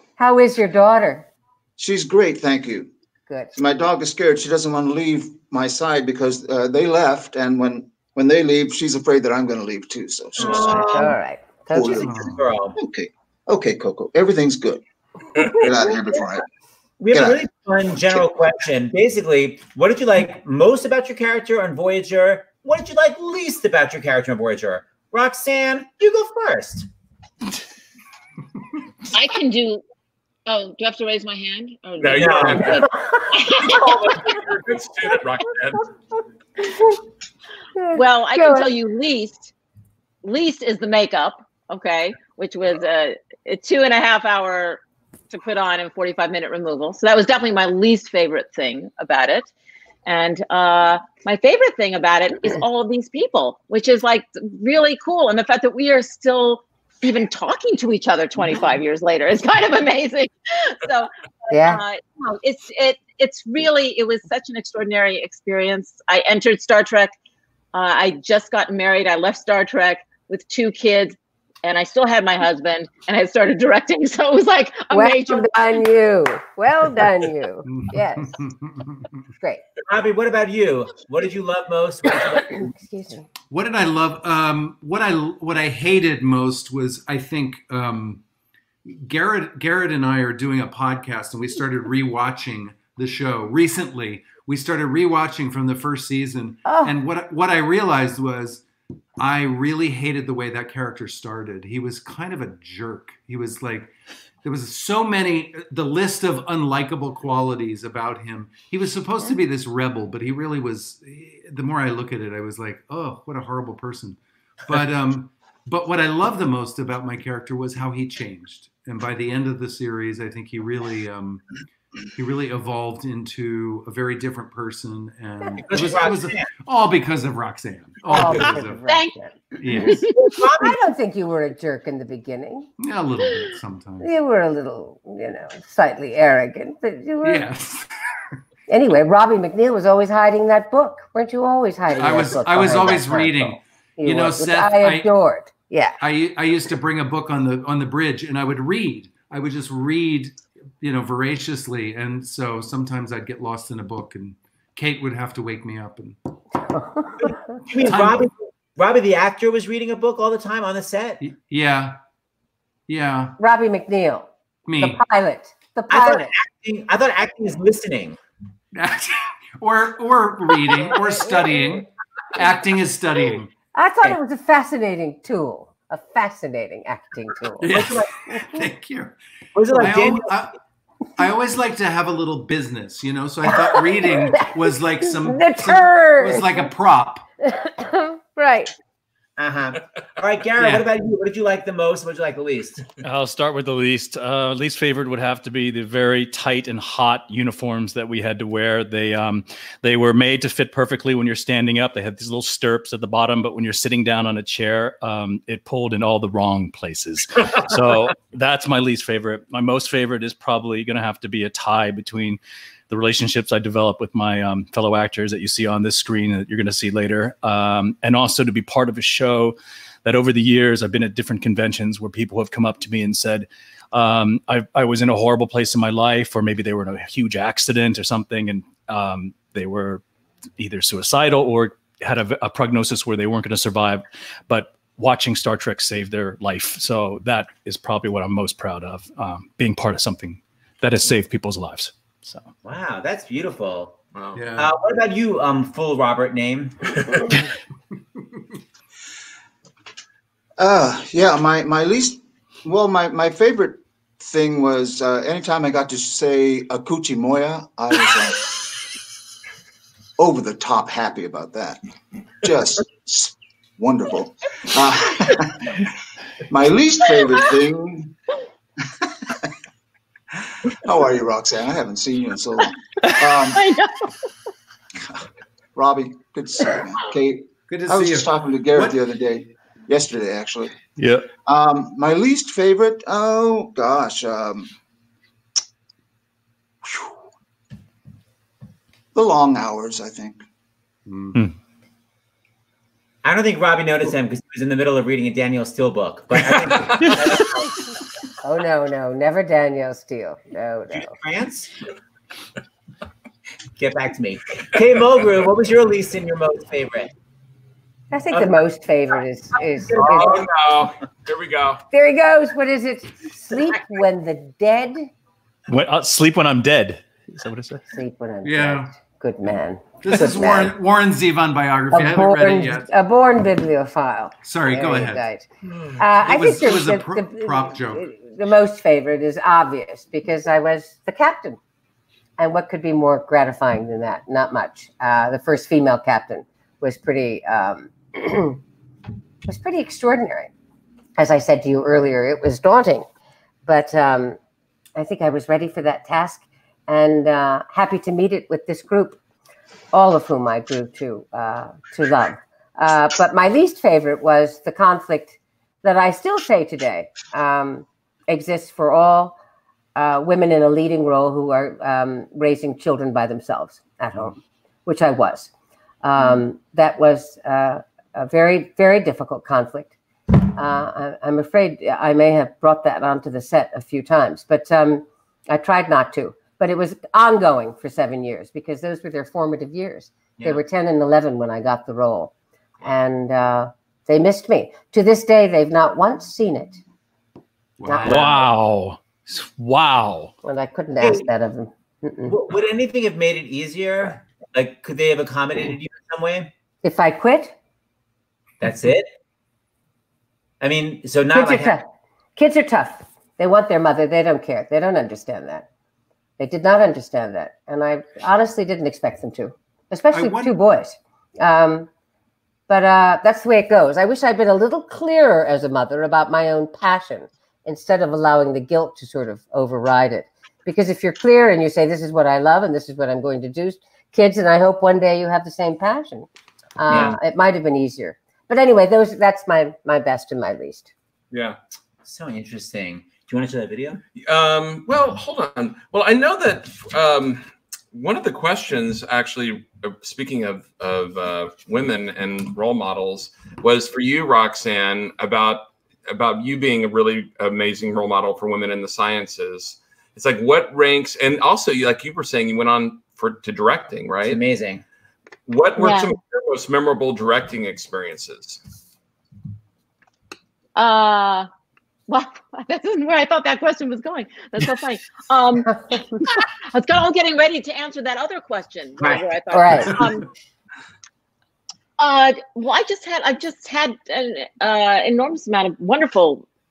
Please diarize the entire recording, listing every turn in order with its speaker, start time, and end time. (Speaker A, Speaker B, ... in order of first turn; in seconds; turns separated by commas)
Speaker A: 0.2-1.3, Speaker B: 1.8-2.9, Speaker B: 3.5-11.1, Speaker C: 10.4-11.0, Speaker A: 10.9-12.0, Speaker B: 11.7-14.8, Speaker D: 12.0-12.4, Speaker C: 12.0-12.8, Speaker B: 15.5-16.4, Speaker C: 17.0-26.9, Speaker B: 17.1-17.4, Speaker E: 29.1-29.8, Speaker E: 30.5-34.1, Speaker F: 32.0-32.9, Speaker C: 32.2-32.8, Speaker F: 33.6-35.9, Speaker A: 37.8-38.7, Speaker E: 37.9-39.5, Speaker E: 40.2-49.5, Speaker E: 50.1-67.1, Speaker A: 61.5-61.8, Speaker E: 67.7-75.8, Speaker A: 74.9-78.4, Speaker D: 77.7-79.2, Speaker C: 79.9-82.7, Speaker A: 82.4-83.3, Speaker D: 83.5-88.2, Speaker D: 88.9-98.6, Speaker A: 96.7-96.9, Speaker D: 99.2-103.9, Speaker D: 104.4-121.4, Speaker D: 122.2-128.8, Speaker C: 125.6-126.5, Speaker A: 128.1-129.3, Speaker E: 128.9-129.2, Speaker D: 129.6-130.1, Speaker E: 129.8-130.1, Speaker C: 130.1-130.8, Speaker A: 130.6-132.7, Speaker D: 132.8-134.1, Speaker A: 134.0-137.5, Speaker D: 137.2-137.9, Speaker A: 138.7-146.0, Speaker D: 141.9-145.1, Speaker D: 146.0-156.2, Speaker A: 156.7-157.6, Speaker C: 157.7-161.2, Speaker D: 157.8-158.3, Speaker D: 161.2-162.0, Speaker D: 162.9-163.4, Speaker A: 163.4-164.3, Speaker D: 164.7-165.0, Speaker A: 164.8-166.3, Speaker C: 165.9-168.2, Speaker D: 168.7-173.5, Speaker A: 173.7-177.7, Speaker D: 177.6-179.2, Speaker C: 177.7-178.1, Speaker C: 179.6-180.4, Speaker D: 179.7-180.5, Speaker D: 181.2-187.2, Speaker A: 183.5-184.5, Speaker A: 185.0-186.7, Speaker A: 187.4-188.7, Speaker C: 189.4-192.9, Speaker D: 190.6-190.9, Speaker G: 193.0-230.0, Speaker G: 230.6-242.5, Speaker C: 242.6-244.0, Speaker F: 244.1-244.4, Speaker D: 244.3-244.7, Speaker C: 244.6-247.3, Speaker B: 250.6-258.5, Speaker B: 260.2-261.8, Speaker B: 262.4-265.8, Speaker B: 266.5-268.1, Speaker B: 270.8-273.7, Speaker E: 273.5-274.1, Speaker B: 275.8-280.7, Speaker D: 277.7-279.0, Speaker G: 281.0-281.3, Speaker B: 281.5-284.7, Speaker B: 289.1-290.4, Speaker D: 291.1-291.4, Speaker C: 293.2-297.7, Speaker A: 298.4-301.1, Speaker C: 300.9-301.7, Speaker C: 303.8-307.1, Speaker A: 308.1-310.0, Speaker C: 309.6-310.7, Speaker F: 309.9-311.8, Speaker A: 311.9-315.1, Speaker G: 315.7-317.9, Speaker A: 317.9-320.7, Speaker D: 318.4-318.9, Speaker D: 320.0-322.9, Speaker A: 321.9-325.5, Speaker D: 324.4-325.2, Speaker A: 326.0-331.6, Speaker D: 326.1-328.1, Speaker A: 332.4-338.6, Speaker A: 339.4-340.5, Speaker A: 341.2-343.1, Speaker A: 343.6-344.4, Speaker A: 345.0-349.2, Speaker A: 349.9-359.4, Speaker A: 359.9-365.5, Speaker A: 366.0-382.3, Speaker A: 382.8-386.8, Speaker D: 387.8-388.4, Speaker A: 387.8-388.4, Speaker G: 388.0-390.3, Speaker A: 390.4-392.3, Speaker C: 391.0-391.3, Speaker C: 392.3-396.5, Speaker A: 396.8-397.6, Speaker C: 398.6-399.1, Speaker C: 400.6-401.8, Speaker A: 401.3-405.7, Speaker A: 406.4-411.9, Speaker D: 410.1-410.6, Speaker A: 412.7-430.9, Speaker C: 426.9-427.2, Speaker F: 431.3-431.6, Speaker C: 432.1-434.0, Speaker F: 434.2-454.4, Speaker C: 454.2-454.8, Speaker F: 455.5-458.6, Speaker E: 455.8-456.1, Speaker E: 460.8-461.5, Speaker E: 462.1-465.8, Speaker A: 465.7-466.0, Speaker E: 466.7-470.2, Speaker A: 469.5-470.0, Speaker E: 472.0-476.5